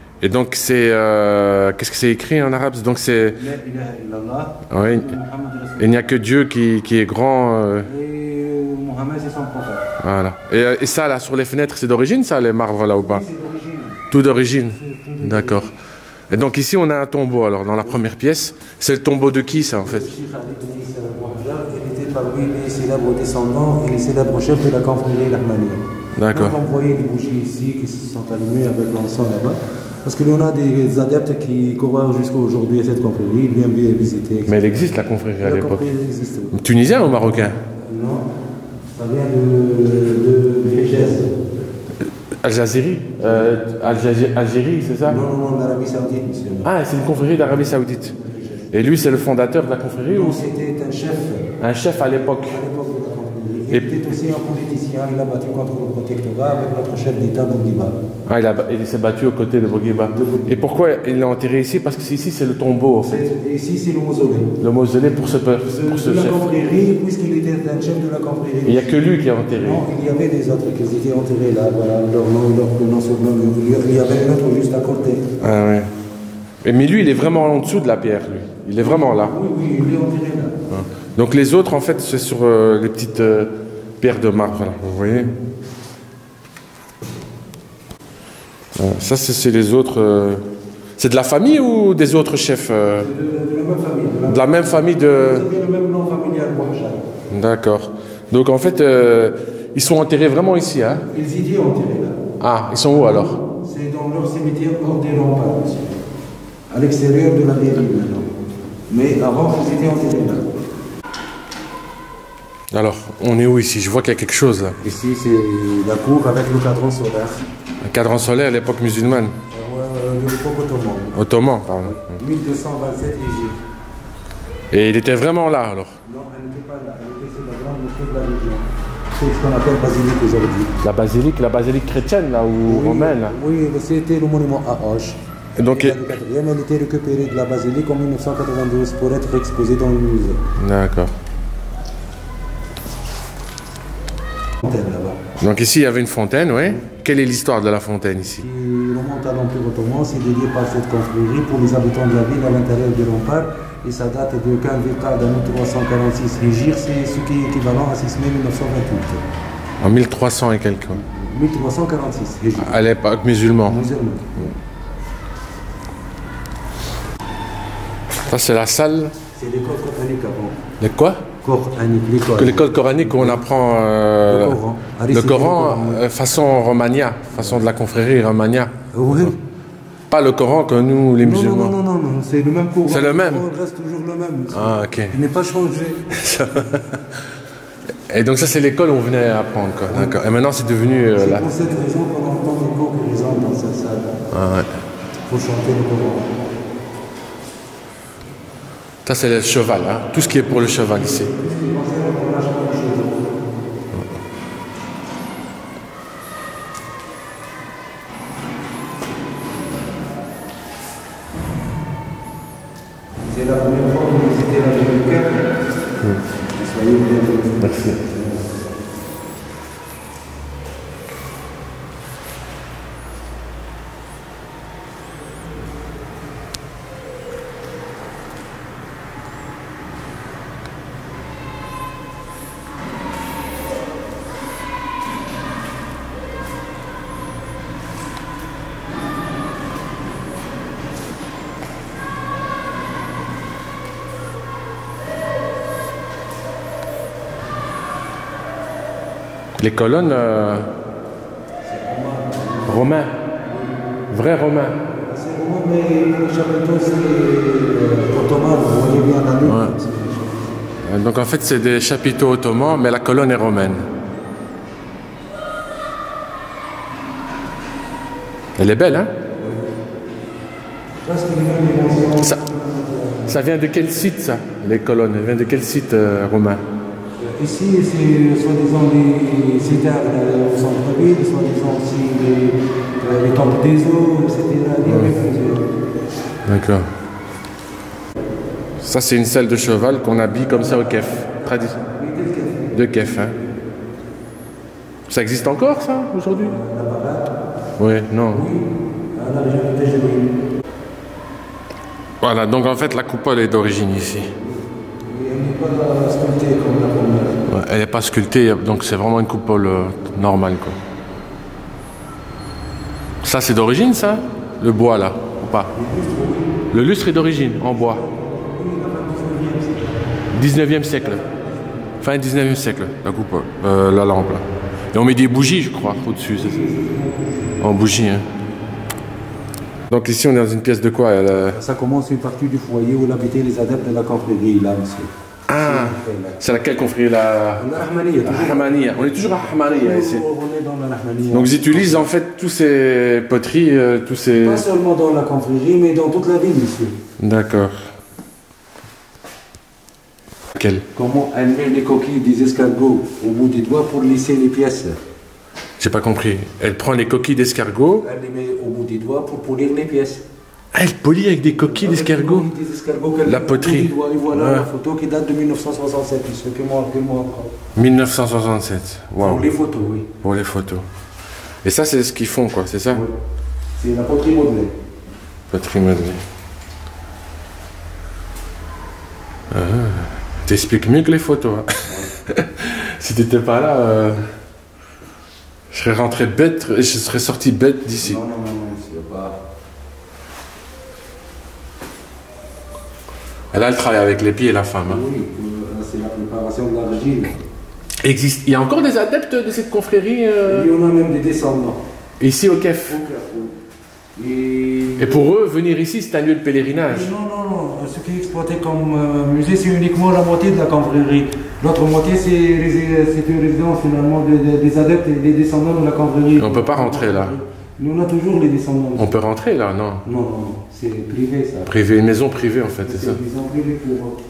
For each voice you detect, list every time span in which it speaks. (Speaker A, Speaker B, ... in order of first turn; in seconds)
Speaker A: 0.2-3.4, 4.7-5.2, 5.8-7.9, 10.0-13.2, 14.1-15.7, 16.3-20.1, 26.1-26.6, 34.5-35.9, 36.5-37.6, 42.4-45.2, 46.6-48.2, 48.7-50.5, 51.6-52.6, 53.7-54.0, 58.2-63.3, 64.6-66.5, 68.6-69.8, 75.4-75.9, 76.6-79.3, 80.7-85.3, 88.7-90.4, 91.0-93.1, 94.3-95.4, 97.3-101.0, 102.4-103.4, 112.7-114.8, 117.8-119.3, 121.1-122.1, 124.7-125.9, 130.8-133.3, 135.6-136.0, 140.6-141.1, 145.4-148.4, 159.8-161.0, 162.6-163.8, 168.2-169.2, 170.8-171.3, 172.3-174.6, 175.1-179.3, 180.1-181.8, 182.8-183.4, 184.5-185.2, 186.1-187.2, 188.1-191.5, 194.3-194.7, 199.0-201.3, 217.6-218.0, 249.6-250.7, 252.7-253.1, 254.1-254.8, 259.4-259.7, 260.8-263.9, 268.6-269.1, 273.3-276.6, 284.9-285.1, 286.4-286.9, 288.8-291.8, 292.7-293.4, 295.1-296.6, 297.8-298.4, 302.2-304.3, 307.5-310.8, 313.2-315.7, 316.7-318.0, 320.3-321.2, 322.0-326.7, 327.6-328.3, 329.9-331.6, 335.5-340.2, 341.3-344.6, 347.2-347.7, 350.5-350.8, 355.8-358.1, 360.7-362.5, 363.2-364.7, 367.7-369.4, 370.2-370.8, 371.6-373.0, 375.5-376.2, 379.5-384.2, 385.7-388.2, 393.5-395.0, 398.0-400.7, 402.2-403.0, 405.0-407.1, 416.4-417.3, 419.0-420.0, 421.7-423.2
Speaker B: 3.3-6.2, 7.8-9.8, 12.9-14.1, 14.7-15.7, 19.8-34.6, 35.4-36.5, 37.8-38.3, 38.9-41.3, 45.0-46.7, 48.2-49.0, 50.1-51.5, 52.2-58.0, 60.1-60.6, 63.0-64.5, 65.6-75.3, 78.8-80.6, 93.0-97.0, 101.1-102.2, 102.9-106.0, 106.7-108.3, 108.9-110.5, 114.8-117.4, 119.5-121.2, 121.8-123.6, 126.0-128.6, 129.2-130.8, 132.6-135.2, 135.7-140.4, 144.6-145.2, 148.4-159.2, 160.9-162.8, 163.6-164.2, 169.3-170.6, 171.4-173.4, 174.2-176.0, 177.3-177.6, 178.9-179.4, 181.2-186.7, 189.9-190.2, 191.1-194.1, 195.3-196.3, 200.4-203.3, 213.2-215.6, 216.5-218.6, 251.6-252.9, 253.4-253.8, 254.8-260.6, 269.4-269.7, 271.0-273.4, 277.2-285.7, 290.4-292.7, 296.3-297.3, 298.3-300.4, 304.9-307.4, 315.7-316.6, 317.4-320.2, 320.9-321.9, 326.3-327.6, 331.5-336.6, 337.6-342.1, 344.4-347.0, 350.9-355.0, 358.0-360.2, 361.6-367.5, 369.2-370.1, 373.8-374.7, 381.9-382.1, 388.0-389.4, 394.9-397.4, 400.4-401.8, 402.8-403.5, 404.1-405.3, 406.9-419.1, 420.0-421.7, 422.8-424.2